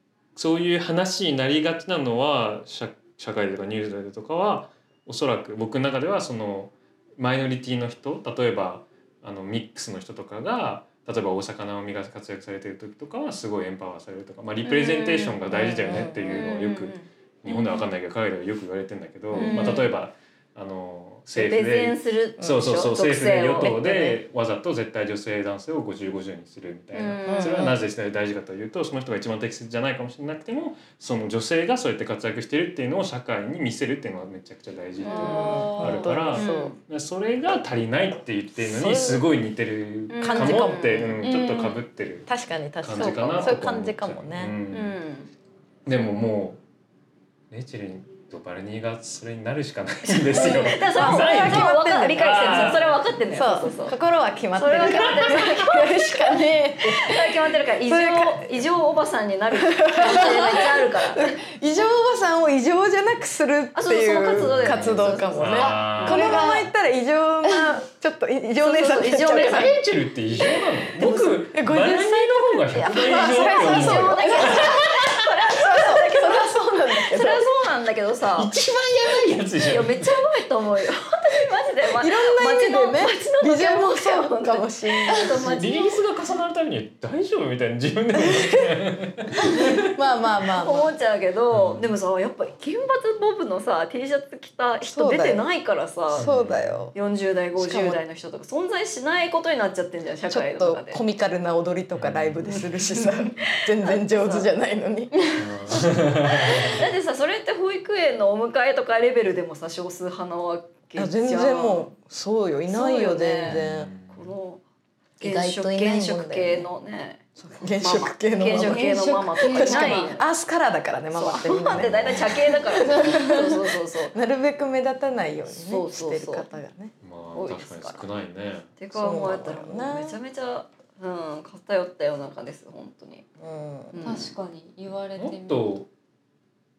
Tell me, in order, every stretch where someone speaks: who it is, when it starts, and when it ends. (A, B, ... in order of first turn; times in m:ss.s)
0:00.4-0:42.3 A
0:14.6-0:17.1 B
0:15.9-0:16.2 C
0:19.3-0:19.7 C
0:19.4-0:19.9 B
0:21.3-0:24.2 B
0:26.9-0:27.7 B
0:27.3-0:27.7 C
0:35.0-0:35.6 B
0:35.0-0:36.1 D
0:35.1-0:36.8 C
0:36.4-0:36.8 B
0:38.6-0:39.3 C
0:40.1-0:41.2 B
0:40.2-0:41.2 C
0:41.2-0:41.8 D
0:42.3-0:44.6 C
0:42.8-0:44.9 A
0:43.0-0:43.6 B
0:44.7-0:45.3 B
0:45.9-0:46.6 A
0:47.5-0:53.0 A
0:50.1-0:54.0 B
0:50.3-0:57.3 C
0:54.6-1:01.4 B
0:54.9-0:55.5 A
0:57.8-0:58.6 C
0:59.6-1:09.8 C
1:03.7-1:06.6 B
1:04.3-1:06.7 A
1:08.6-1:09.8 B
1:09.4-1:15.2 A
1:10.4-1:11.5 B
1:11.5-1:17.5 C
1:12.7-1:18.5 B
1:18.4-1:20.2 A
1:19.6-1:26.0 B
1:21.9-1:25.4 C
1:25.4-1:29.9 A
1:28.2-1:30.9 C
1:30.6-1:36.3 B
1:31.5-1:31.9 A
1:34.8-1:35.5 C
1:36.1-1:36.8 A
1:36.1-1:36.9 C
1:36.9-1:41.0 B
1:37.6-1:38.0 C
1:40.3-1:45.7 C
1:42.0-1:42.8 A
1:42.5-1:44.5 B
1:45.4-1:46.8 A
1:46.2-1:51.9 B
1:51.0-1:53.9 C
1:52.7-1:54.6 B
1:53.4-1:54.3 A
1:55.2-1:57.2 B
1:55.2-1:56.7 C
1:57.4-2:06.9 C
1:57.8-2:00.3 B
1:58.5-2:00.1 D
2:01.1-2:04.1 B
2:01.7-2:02.5 A
2:02.9-2:03.3 D
2:05.5-2:06.5 B
2:07.0-2:08.7 A
2:07.3-2:08.0 B
2:08.8-2:13.2 B
2:08.9-2:10.2 C
2:13.4-2:14.0 C
2:13.9-2:14.3 B
2:14.0-2:15.7 D
2:15.2-2:15.9 A